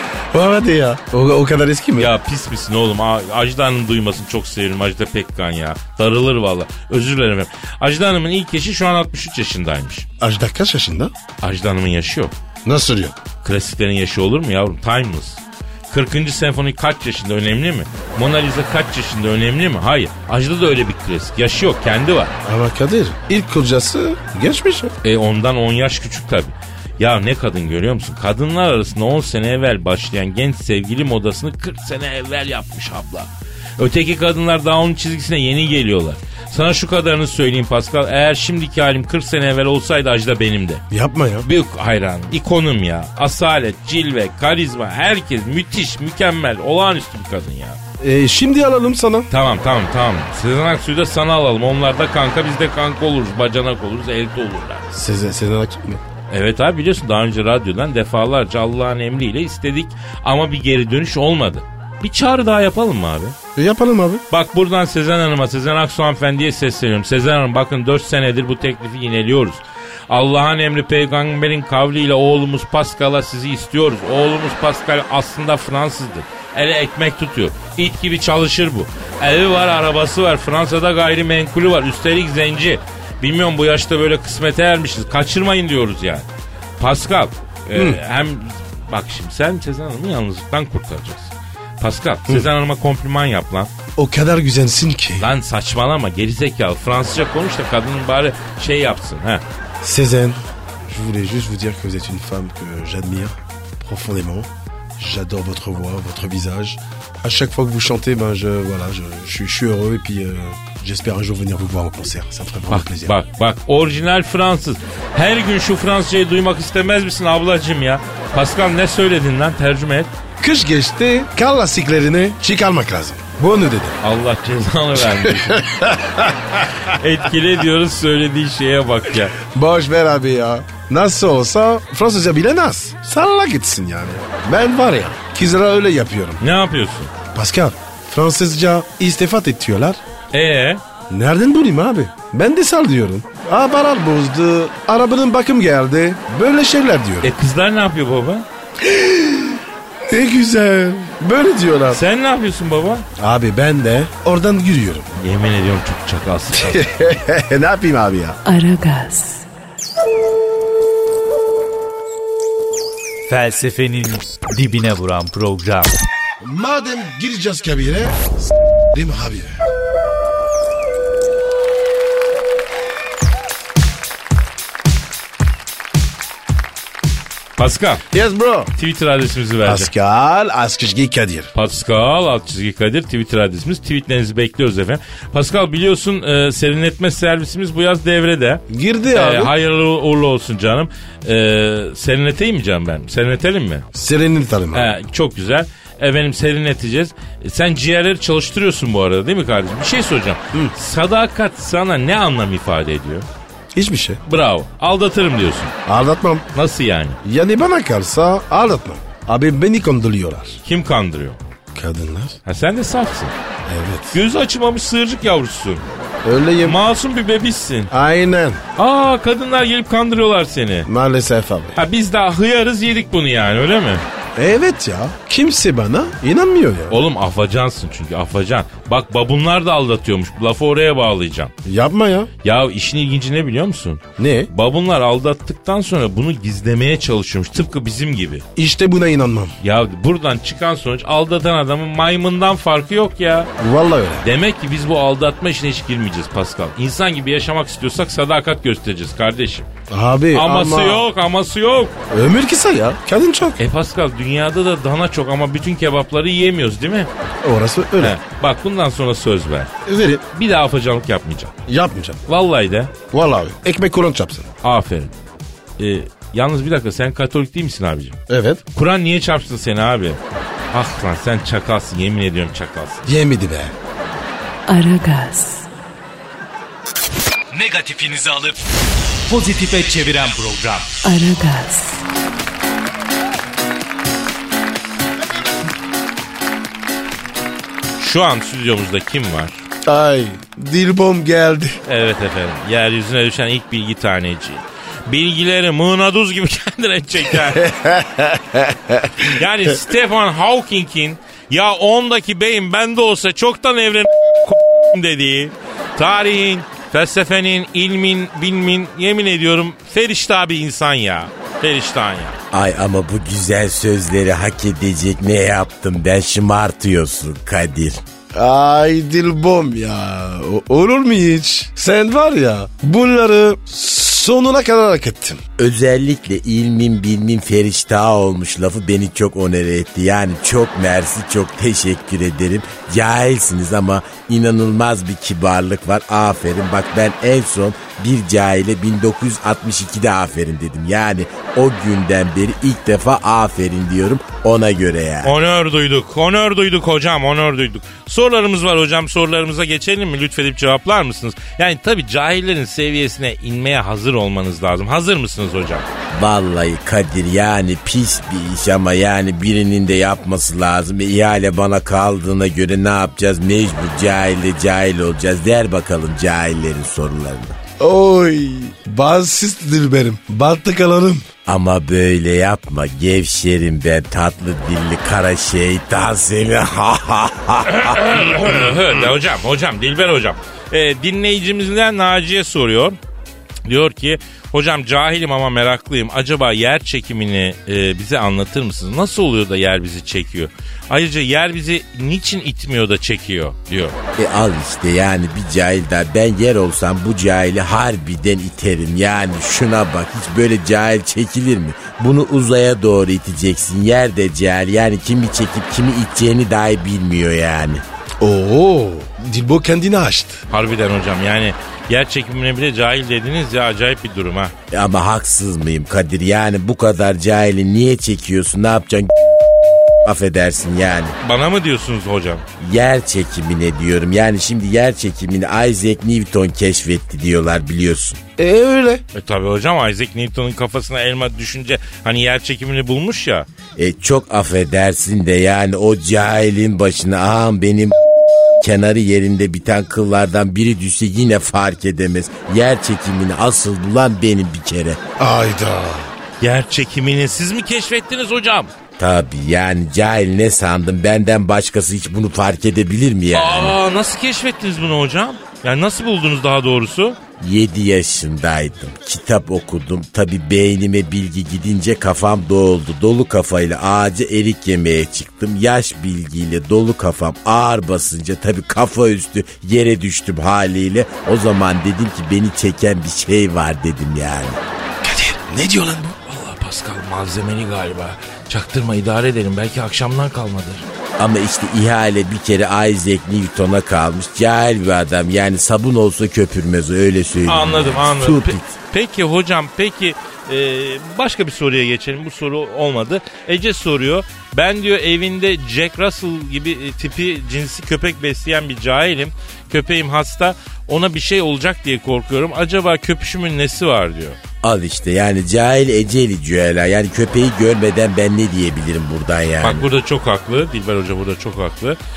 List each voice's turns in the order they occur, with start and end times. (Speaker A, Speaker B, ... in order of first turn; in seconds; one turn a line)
Speaker A: 0.3-2.1
Speaker B: 2.0-10.1
Speaker A: 10.2-11.1
Speaker B: 11.4-12.3
Speaker A: 12.7-13.2
Speaker B: 13.4-22.3
Speaker A: 22.4-24.9
Speaker B: 25.0-40.8
Speaker A: 40.9-41.5
Speaker B: 41.4-47.8
Speaker A: 48.0-49.3
Speaker B: 49.3-54.9
Speaker A: 54.9-56.0
Speaker B: 56.3-63.4
Speaker A: 63.6-64.2
Speaker B: 64.3-86.3
Speaker B: 86.8-93.7
Speaker A: 87.7-88.0
Speaker A: 94.0-95.3
Speaker B: 95.2-99.4
Speaker A: 99.8-113.2
Speaker B: 112.7-120.1
Speaker A: 120.4-124.0
Speaker B: 124.0-125.7
Speaker A: 125.0-126.7
Speaker B: 126.9-129.4
Speaker A: 129.4-136.4
Speaker B: 136.4-137.1
Speaker A: 137.3-140.0
Speaker B: 140.3-140.8
Speaker A: 141.1-147.3
Speaker B: 147.2-148.5
Speaker A: 148.8-152.0
Speaker B: 151.9-153.1
Speaker A: 153.2-155.1
Speaker B: 155.2-156.9
Speaker A: 156.5-158.4
Speaker C: 158.4-159.4
Speaker D: 163.3-165.9
Speaker A: 166.4-168.3
Speaker A: 168.9-169.6
Speaker B: 177.6-178.1
Speaker A: 178.1-178.7
Speaker B: 178.8-179.9
Speaker A: 179.7-181.5
Speaker B: 181.5-193.9
Speaker A: 188.7-189.5
Speaker A: 193.9-194.9
Speaker B: 194.7-203.3
Speaker A: 203.8-204.2
Speaker B: 204.3-205.7
Speaker A: 205.9-206.5
Speaker B: 206.5-207.2
Speaker A: 207.2-210.6
Speaker B: 210.7-211.4
Speaker A: 211.7-212.4
Speaker B: 212.5-213.3
Speaker A: 213.7-214.2
Speaker B: 214.1-215.9
Speaker A: 216.2-216.8
Speaker B: 216.6-217.9
Speaker A: 217.9-218.6
Speaker B: 218.8-220.9
Speaker A: 220.9-221.8
Speaker B: 221.8-224.1
Speaker A: 224.4-227.0
Speaker B: 226.9-231.5
Speaker A: 231.7-232.3
Speaker B: 232.4-238.4
Speaker A: 234.2-234.5
Speaker A: 238.6-239.6
Speaker B: 239.6-243.5
Speaker A: 243.6-244.3
Speaker B: 244.2-249.7
Speaker A: 249.9-251.1
Speaker B: 250.3-252.0
Speaker A: 252.1-253.6
Speaker B: 253.6-257.1
Speaker A: 257.4-258.2
Speaker B: 258.0-259.7
Speaker A: 259.9-260.2
Speaker B: 260.3-261.5
Speaker A: 261.7-262.2
Speaker B: 262.3-262.9
Speaker A: 263.1-264.5
Speaker B: 264.6-265.1
Speaker B: 265.8-268.2
Speaker A: 268.3-268.6
Speaker B: 268.7-270.2
Speaker B: 270.7-273.1
Speaker A: 273.1-273.7
Speaker C: 274.7-275.7
Speaker D: 277.5-278.6
Speaker D: 279.3-281.0
Speaker C: 281.0-282.0
Speaker B: 288.0-289.6
Speaker A: 289.8-291.8
Speaker B: 291.9-297.7
Speaker A: 297.4-299.3
Speaker B: 299.2-312.4
Speaker E: 312.5-318.0
Speaker A: 318.3-325.4
Speaker E: 325.6-345.4
Speaker B: 345.2-355.9
Speaker E: 356.1-367.6
Speaker A: 367.8-371.3
Speaker E: 371.5-378.0
Speaker B: 377.7-383.0
Speaker B: 383.6-394.0
Speaker E: 394.2-407.8
Speaker A: 408.2-410.4
Speaker B: 410.5-414.5
Speaker E: 414.7-419.1
Speaker E: 420.1-421.2
Speaker B: 421.2-422.4
Speaker E: 422.6-428.2
Speaker A: 428.4-429.0
Speaker B: 429.1-433.5
Speaker E: 433.8-438.0
Speaker E: 438.6-445.0
Speaker A: 445.2-446.1
Speaker B: 446.4-448.7
Speaker E: 449.0-453.8
Speaker B: 453.3-457.2
Speaker E: 457.4-474.6
Speaker A: 475.0-476.2
Speaker B: 476.2-480.9
Speaker E: 481.2-488.7
Speaker B: 487.5-504.4
Speaker E: 504.6-509.9
Speaker B: 509.6-512.0